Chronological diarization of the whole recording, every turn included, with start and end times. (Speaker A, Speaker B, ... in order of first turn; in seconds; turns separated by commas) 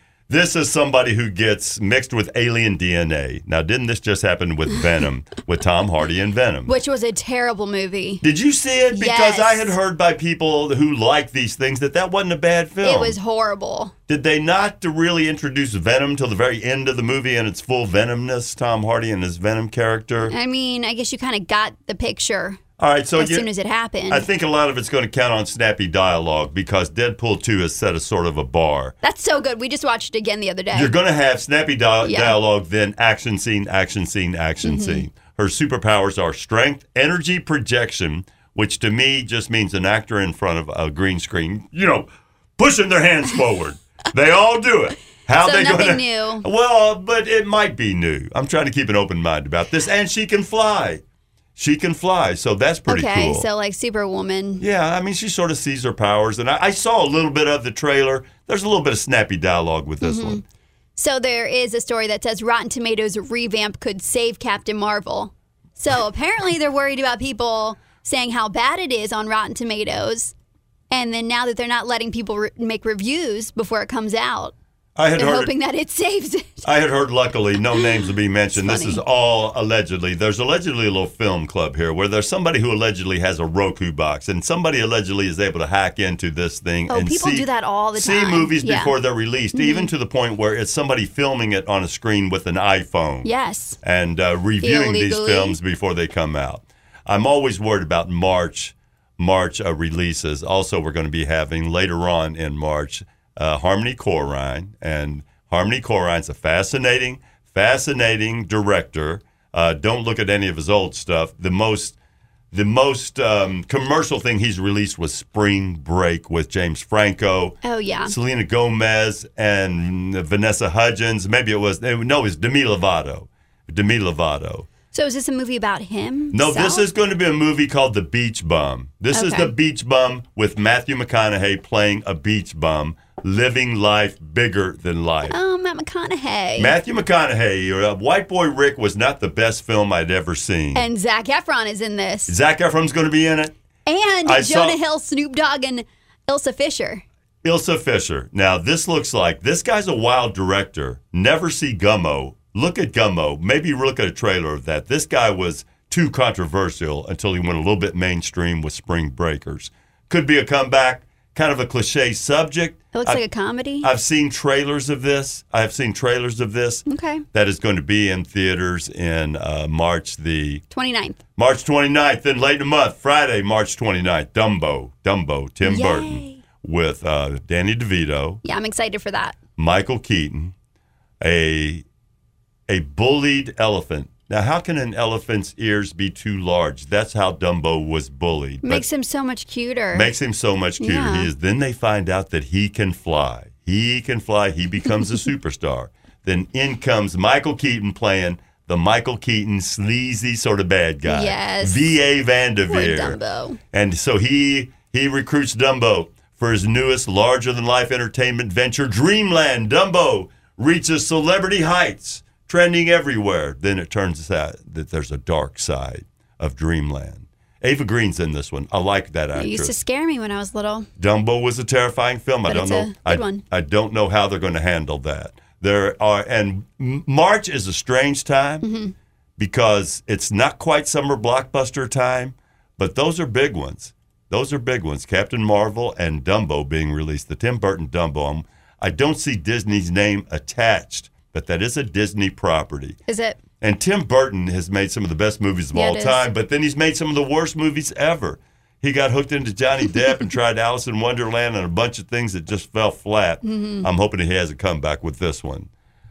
Speaker A: 0.3-6.7, Speaker B: 6.7-8.2, Speaker A: 8.2-13.2, Speaker B: 8.9-9.7, Speaker B: 12.8-13.9, Speaker A: 14.1-20.3, Speaker B: 20.2-22.6, Speaker A: 22.8-23.5, Speaker B: 23.2-24.3, Speaker A: 24.1-28.9, Speaker B: 29.0-30.9, Speaker A: 30.7-51.0, Speaker B: 32.0-32.4, Speaker B: 34.6-35.0, Speaker B: 45.3-46.5, Speaker A: 51.5-53.5, Speaker B: 52.9-54.6, Speaker A: 54.6-60.4, Speaker B: 60.0-60.4, Speaker B: 61.0-70.3, Speaker B: 70.9-74.5, Speaker A: 75.0-75.5, Speaker B: 75.2-76.7, Speaker A: 76.6-93.3, Speaker B: 77.7-79.0, Speaker B: 86.9-88.9, Speaker B: 89.5-89.9, Speaker B: 93.2-93.8, Speaker A: 93.8-112.0, Speaker B: 94.6-95.6, Speaker A: 112.5-124.7, Speaker B: 117.6-118.2, Speaker B: 124.9-126.8, Speaker A: 126.3-135.4, Speaker B: 129.1-129.5, Speaker B: 135.2-136.8, Speaker A: 136.6-140.9, Speaker B: 140.7-142.3, Speaker A: 142.3-143.5, Speaker B: 143.8-147.0, Speaker A: 144.2-144.8, Speaker A: 147.4-163.2, Speaker B: 162.9-163.9, Speaker A: 163.8-170.6, Speaker B: 166.9-167.2, Speaker B: 170.7-171.2, Speaker A: 171.3-178.4, Speaker B: 175.6-176.4, Speaker B: 178.4-179.4, Speaker A: 179.6-180.5, Speaker A: 181.2-181.8, Speaker A: 182.7-188.8, Speaker B: 188.6-190.1, Speaker A: 189.9-203.2, Speaker B: 190.8-191.3, Speaker B: 201.0-201.9, Speaker B: 202.7-203.6, Speaker A: 203.7-219.8, Speaker B: 219.3-220.9, Speaker A: 221.0-228.7, Speaker B: 222.5-223.4, Speaker B: 228.6-228.9, Speaker A: 229.4-243.0, Speaker B: 243.1-243.4, Speaker A: 243.6-255.7, Speaker B: 245.7-246.2, Speaker B: 253.4-253.9